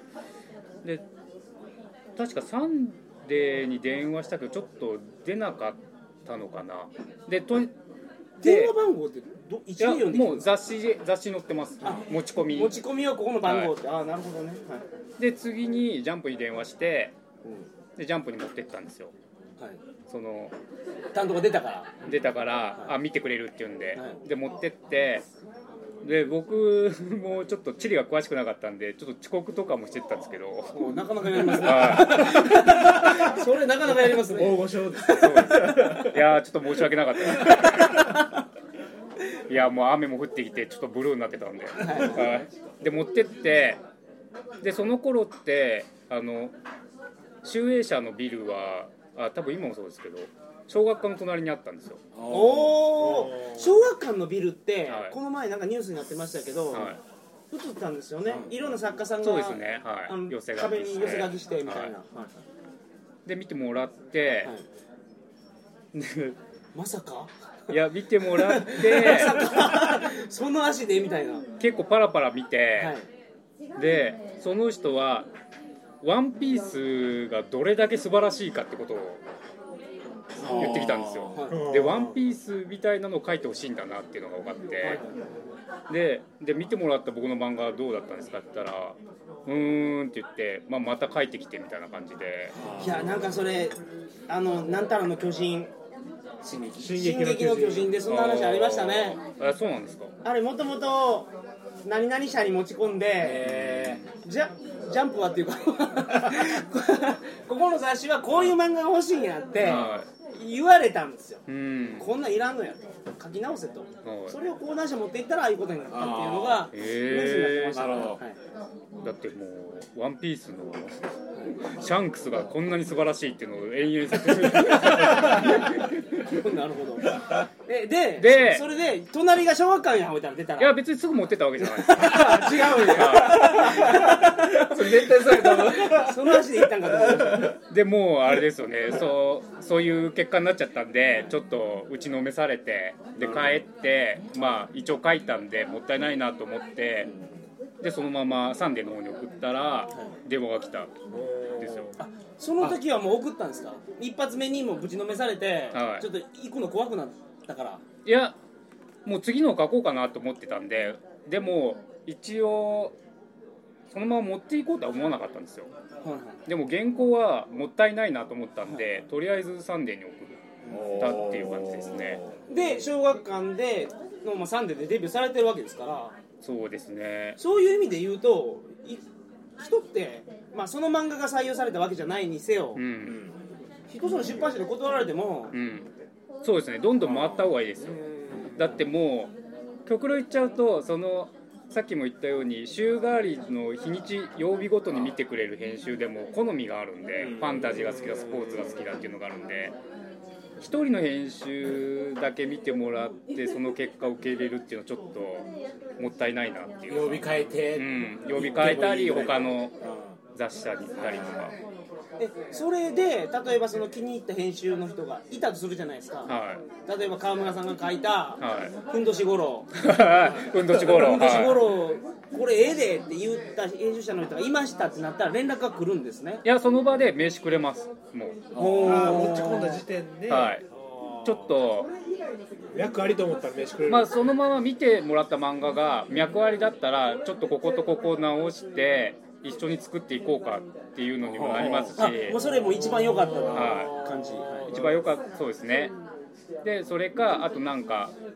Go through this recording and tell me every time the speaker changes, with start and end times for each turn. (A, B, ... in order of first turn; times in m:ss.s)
0:02.2-0:07.7 A
0:08.4-0:10.5 B
0:08.4-0:08.7 A
0:09.8-0:12.8 A
0:11.8-0:14.8 B
0:13.4-0:13.7 A
0:15.2-0:17.1 A
0:17.4-0:17.7 B
0:18.0-0:19.1 A
0:20.1-0:20.5 A
0:21.1-0:22.0 B
0:22.0-0:25.2 A
0:26.0-0:32.6 A
0:30.7-0:36.1 B
0:32.6-0:33.3 C
0:33.8-0:36.2 C
0:35.1-0:38.1 A
0:37.4-0:38.4 B
0:39.5-0:43.8 A
0:41.8-0:42.4 B
0:44.6-0:46.5 A
0:47.4-0:52.1 A
0:52.1-0:52.7 D
0:52.2-0:57.0 B
0:52.3-0:53.8 C
0:54.9-0:55.2 A
0:56.7-0:57.0 A
0:57.5-1:02.3 B
0:59.2-1:01.9 A
1:03.2-1:04.5 A
1:05.9-1:06.4 A
1:06.7-1:11.4 B
1:07.7-1:09.7 A
1:11.6-1:12.9 A
1:12.8-1:13.0 B
1:13.8-1:15.3 A
1:16.0-1:19.2 A
1:20.4-1:21.4 D
1:20.4-1:25.0 A
1:21.3-1:21.7 B
1:21.5-1:22.2 C
1:24.8-1:25.1 B
1:25.9-1:32.6 A
1:32.6-1:33.3 C
1:32.6-1:33.0 D
1:32.8-1:33.7 B
1:34.3-1:35.7 B
1:36.5-1:39.2 B
1:36.7-1:38.0 C
1:38.1-1:40.1 A
1:40.2-1:41.3 B
1:41.8-1:43.4 B
1:43.2-1:44.0 D
1:43.4-1:44.1 A
1:44.2-1:51.4 B
1:49.6-1:50.1 A
1:51.5-1:52.1 A
1:52.0-1:58.4 B
1:54.0-1:54.4 A
1:55.9-1:56.7 D
1:56.7-1:58.1 A
1:57.7-1:58.2 D
1:59.0-2:01.0 A
2:01.6-2:05.7 A
2:04.4-2:10.8 B
2:08.2-2:08.6 A
2:10.6-2:13.9 A
2:11.6-2:17.6 B
2:12.0-2:17.6 C
2:17.7-2:27.1 A
2:23.2-2:23.6 D
2:27.8-2:30.9 A
2:31.1-2:32.0 C
2:31.6-2:31.9 A
2:32.0-2:37.8 B
2:35.7-2:36.1 A
2:38.0-2:38.4 A
2:39.0-2:43.0 A
2:43.9-2:45.7 A
2:46.0-2:46.4 B
2:46.4-2:52.2 A
2:50.7-2:52.4 D
2:52.5-2:56.2 B
2:56.4-2:57.4 A
2:57.4-2:59.0 B
2:59.6-3:02.8 B
3:02.7-3:03.2 A
3:03.0-3:03.5 D
3:03.9-3:05.6 B
3:05.5-3:05.9 A
3:06.4-3:09.3 A
3:07.0-3:07.5 D
3:08.3-3:08.8 B
3:09.8-3:19.8 A
3:17.2-3:18.0 D
3:17.6-3:18.7 C
3:20.6-3:25.4 A
3:26.0-3:29.7 A
3:26.9-3:30.2 D
3:30.3-3:31.6 A
3:32.2-3:39.8 B
3:36.3-3:36.6 A
3:38.4-3:38.7 A
3:39.7-3:41.7 A
3:40.6-3:46.4 B
3:46.4-3:48.4 A
3:48.5-3:49.8 B
3:48.5-3:49.2 D
3:48.8-3:51.5 C
3:50.3-3:50.6 A
3:51.2-3:51.9 A
3:52.7-3:54.1 C
3:53.9-4:02.4 A
4:01.2-4:02.0 D
4:01.5-4:04.8 B
4:02.6-4:05.1 C
4:03.5-4:04.0 A
4:04.7-4:05.9 A
4:06.6-4:08.1 A